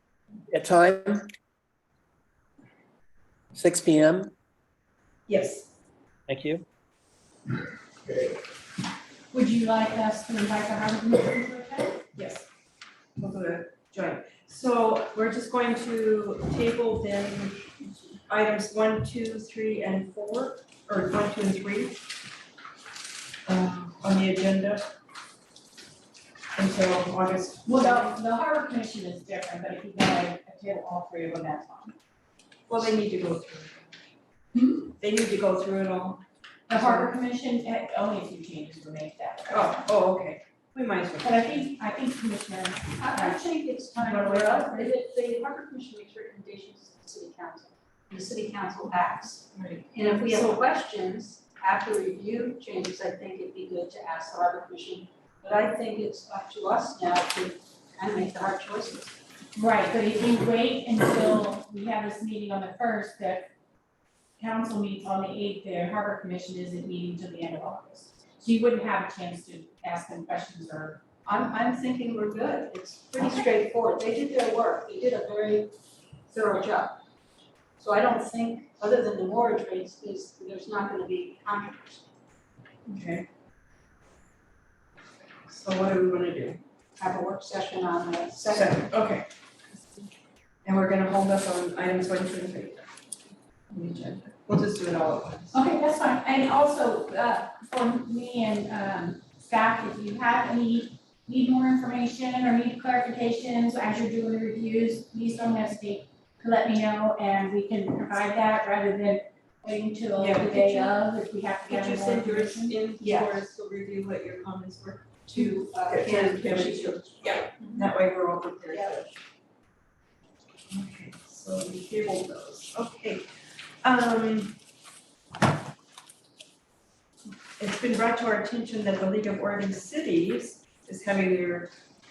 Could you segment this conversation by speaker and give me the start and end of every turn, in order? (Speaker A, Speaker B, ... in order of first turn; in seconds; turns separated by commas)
Speaker A: 0.5-1.3, Speaker A: 3.5-4.3, Speaker B: 5.3-5.7, Speaker A: 6.3-6.7, Speaker C: 9.3-12.0, Speaker B: 12.2-12.5, Speaker B: 13.2-17.7, Speaker B: 18.3-22.0, Speaker B: 23.5-24.9, Speaker B: 26.6-28.1, Speaker C: 27.6-31.9, Speaker B: 32.7-34.0, Speaker B: 35.0-37.1, Speaker C: 36.7-39.9, Speaker B: 39.5-41.7, Speaker C: 41.2-45.0, Speaker D: 43.0-59.2, Speaker B: 49.5-50.6, Speaker C: 59.6-63.5, Speaker C: 64.4-71.0, Speaker D: 71.2-75.7, Speaker D: 76.3-77.0, Speaker D: 77.8-82.0, Speaker B: 82.9-83.3, Speaker B: 85.5-86.6, Speaker D: 87.0-88.9, Speaker B: 88.5-89.3, Speaker B: 90.7-95.6, Speaker C: 95.5-112.8, Speaker B: 110.2-111.0, Speaker B: 111.7-119.1, Speaker D: 113.0-113.3, Speaker D: 115.3-117.9, Speaker D: 118.7-119.0, Speaker B: 120.7-123.3, Speaker B: 123.8-124.6, Speaker B: 127.6-131.7